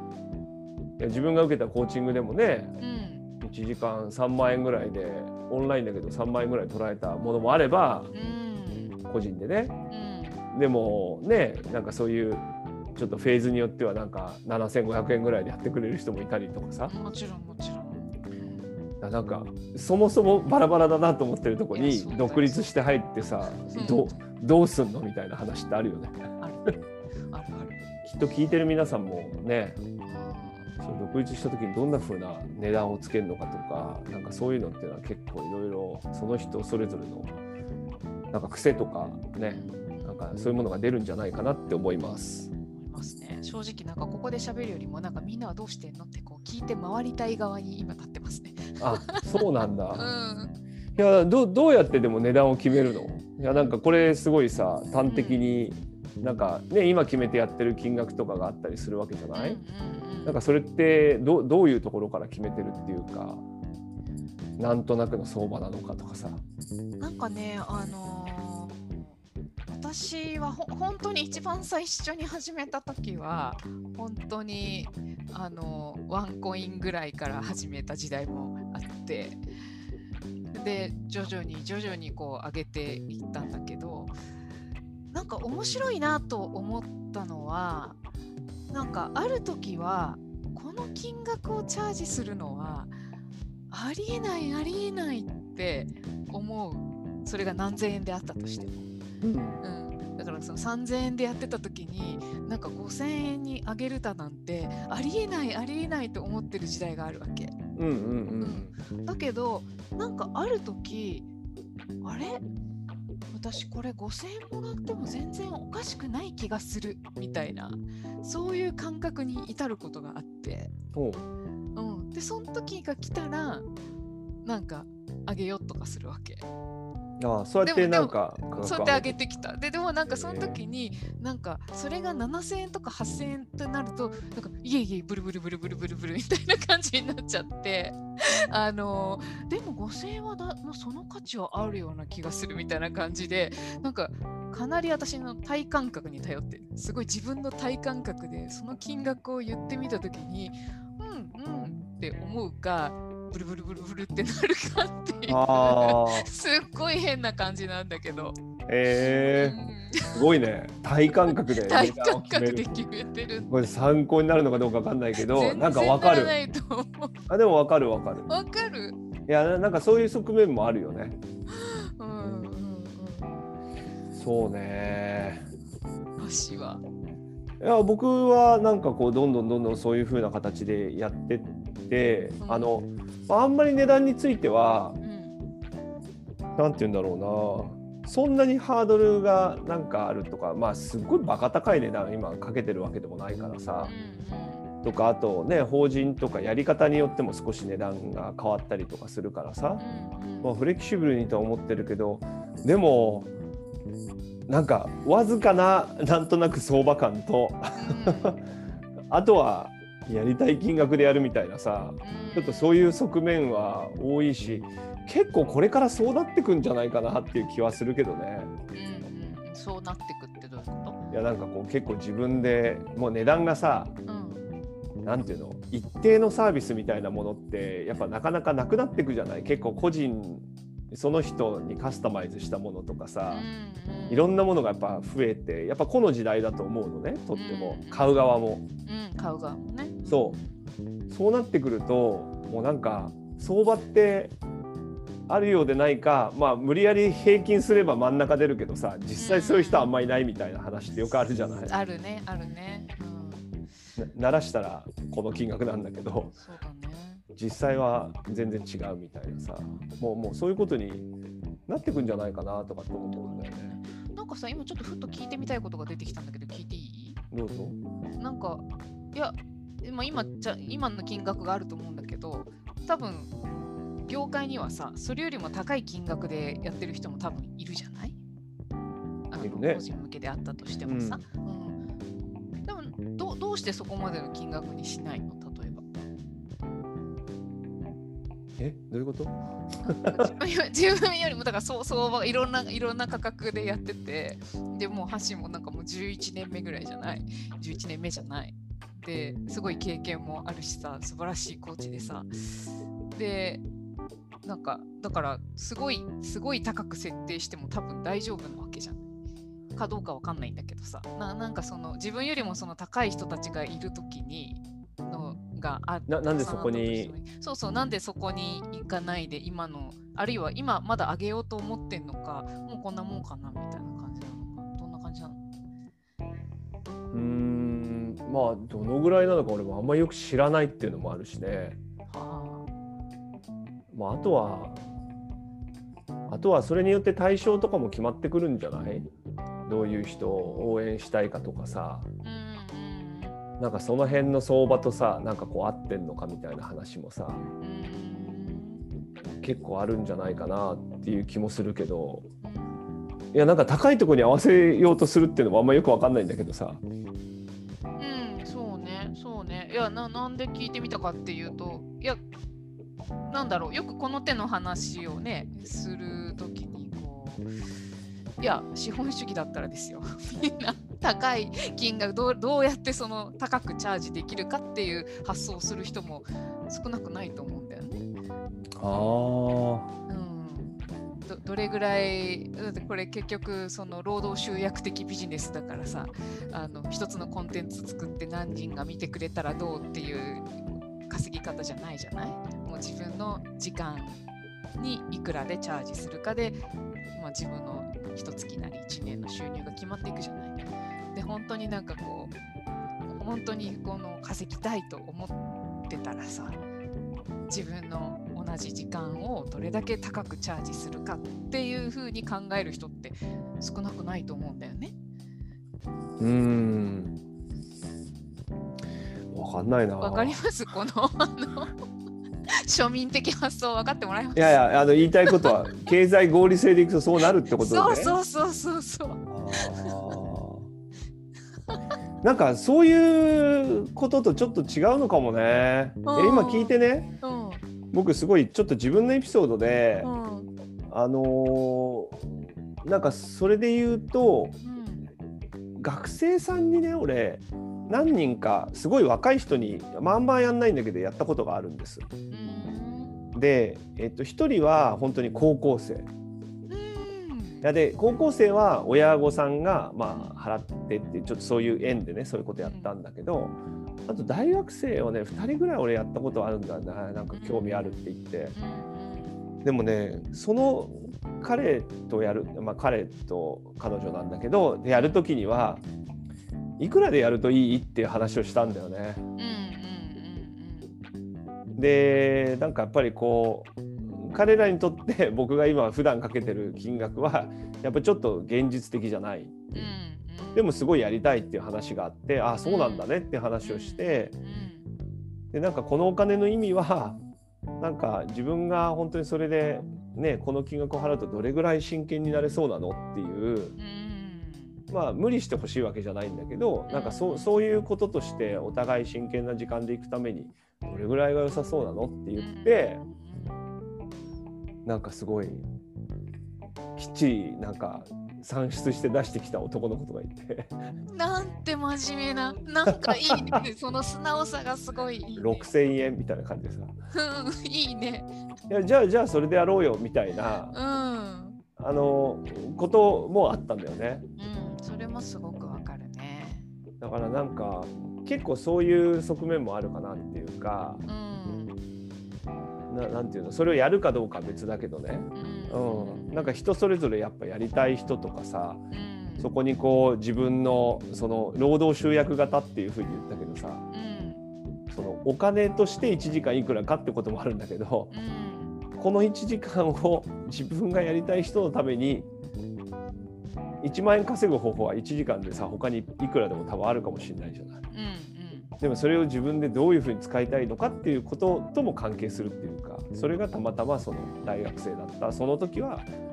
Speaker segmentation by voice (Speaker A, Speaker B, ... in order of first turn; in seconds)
Speaker A: 1.0-2.7, 3.4-8.1, 9.1-9.8, 10.5-16.9, 19.0-26.2, 28.1-29.8, 30.8-37.3, 38.3-42.5, 48.8-50.1, 51.0-59.6, 60.2-63.4, 64.6-66.4, 99.2-99.6, 107.8-108.8, 120.9-121.3, 127.2-129.4, 130.1-130.6, 155.3-156.3, 158.7-159.6, 160.1-162.7, 163.5-166.3, 167.3-168.3, 169.3-171.2, 174.2-175.4, 177.6-185.0, 186.6-193.9, 194.8-199.8, 200.4-203.3, 204.5-208.4, 209.1-218.5, 221.1-224.0, 225.0-233.5, 234.1-238.7, 240.1-240.4, 241.1-244.3, 245.3-251.7, 254.0-256.4, 257.4-261.1, 261.7-263.8, 267.3-267.8, 279.4-279.8, 280.9-281.2, 288.6-289.4, 289.9-290.3, 316.1-317.1, 327.1-331.8, 333.9-334.8, 336.3-339.1, 339.7-342.1, 343.6-347.5, 349.3-352.3, 353.3-356.8, 378.8-379.9, 416.2-417.2, 419.3-420.4, 424.4-428.1, 429.3-430.7, 432.2-437.1, 437.9-440.1, 440.9-442.3, 442.8-444.6, 445.8-452.1, 453.3-456.1, 457.6-468.5, 469.6-475.8, 476.8-479.2, 481.8-489.9, 490.6-494.3, 495.5-497.2, 497.8-503.8, 504.9-513.0, 514.9-515.7, 517.0-520.8, 522.9-523.6, 525.4-527.0, 528.7-530.7, 531.8-534.2, 537.0-541.0, 542.9-548.8, 549.4-553.8, 554.9-558.1, 559.0-562.3, 563.8-567.8, 568.8-576.1
Speaker B: 2.8-3.3, 8.1-9.0, 9.9-10.4, 16.9-18.8, 21.7-22.7, 23.6-24.2, 26.4-26.8, 27.3-27.8, 30.1-30.8, 39.5-40.2, 42.6-49.4, 50.0-50.5, 55.0-55.4, 59.3-60.4, 67.0-69.1, 69.7-79.4, 80.5-84.2, 85.1-88.0, 88.7-93.0, 93.7-98.9, 99.6-107.5, 108.4-111.3, 112.0-112.4, 113.3-120.7, 121.8-123.7, 124.4-126.5, 127.6-158.3, 159.3-160.2, 161.3-163.7, 165.2-167.1, 168.3-169.0, 171.5-173.4, 176.2-176.8, 182.4-182.7, 185.0-185.4, 193.8-194.7, 199.8-200.6, 207.8-208.4, 212.0-212.8, 218.7-221.0, 224.1-224.4, 233.3-234.3, 237.3-238.1, 238.9-240.5, 249.2-249.9, 251.7-253.5, 256.4-257.2, 263.1-267.2, 268.2-273.3, 274.1-278.2, 279.3-281.8, 282.7-285.8, 289.8-302.3, 303.1-303.6, 304.4-309.0, 309.8-325.4, 332.1-332.7, 340.2-340.8, 342.2-343.4, 347.6-348.8, 352.4-352.8, 358.0-362.2, 363.3-367.5, 368.4-378.1, 380.1-390.5, 391.1-394.2, 394.8-396.6, 397.1-400.6, 401.1-402.3, 403.1-406.6, 407.5-414.9, 420.0-421.7, 422.5-424.6, 425.3-425.9, 427.6-430.0, 436.0-437.6, 440.0-440.5, 444.6-445.1, 452.3-453.2, 456.7-457.7, 462.6-462.9, 467.3-469.5, 479.4-480.9, 489.8-490.6, 492.6-493.1, 493.6-494.9, 503.8-504.8, 506.9-507.5, 512.4-513.6, 521.1-525.6, 527.1-528.3, 530.7-531.6, 534.4-536.7, 541.0-541.8, 545.4-546.5, 548.9-549.5, 553.9-554.4, 558.1-558.8, 567.9-568.7